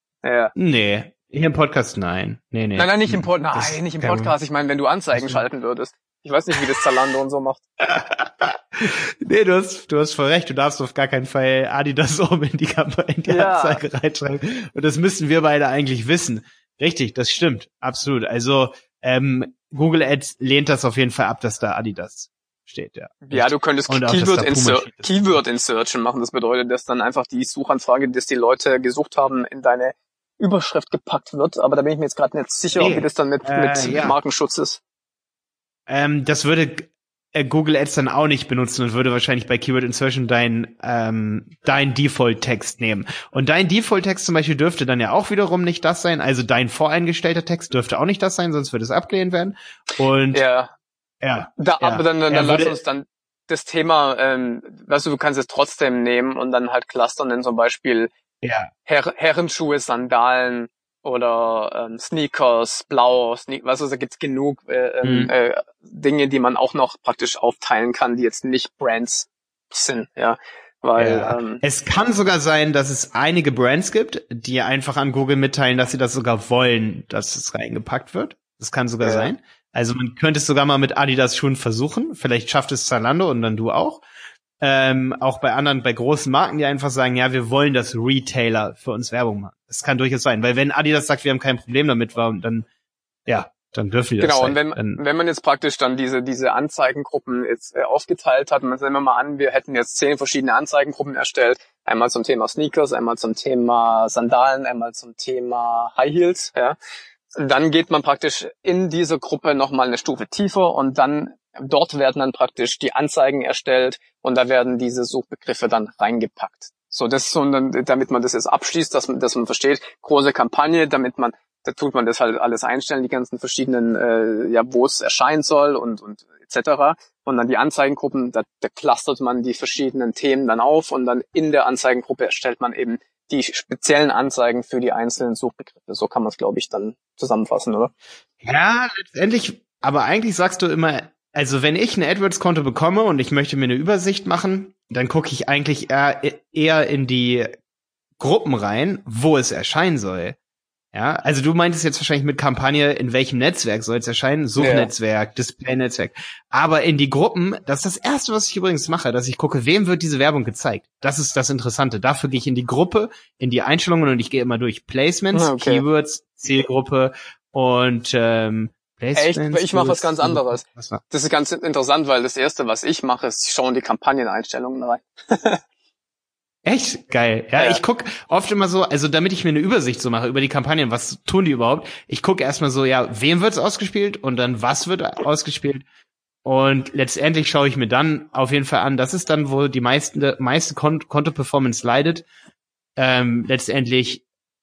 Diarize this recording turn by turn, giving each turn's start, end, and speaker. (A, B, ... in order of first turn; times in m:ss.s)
0:00.2-0:00.5 A
0:00.6-0:04.3 B
0:02.8-0:07.6 A
0:05.1-0:05.4 B
0:07.8-0:25.3 B
0:13.3-0:13.8 A
0:23.2-0:34.8 A
0:32.8-0:34.2 B
0:35.9-0:50.4 B
0:50.3-0:50.7 A
0:51.2-0:52.7 B
0:51.6-0:58.1 A
0:58.4-0:58.7 B
0:58.8-1:11.6 A
1:05.0-1:05.3 B
1:11.0-1:24.0 B
1:19.0-1:19.3 A
1:24.6-1:32.7 B
1:33.3-1:35.0 B
1:34.2-1:46.8 A
1:47.4-2:17.9 A
2:18.4-2:27.5 B
2:28.2-2:30.4 B
2:30.9-2:51.0 B
2:34.6-2:34.9 A
2:45.3-2:45.8 A
2:49.1-2:55.6 A
2:56.6-3:05.8 B
3:06.4-3:12.2 B
3:13.0-3:14.2 B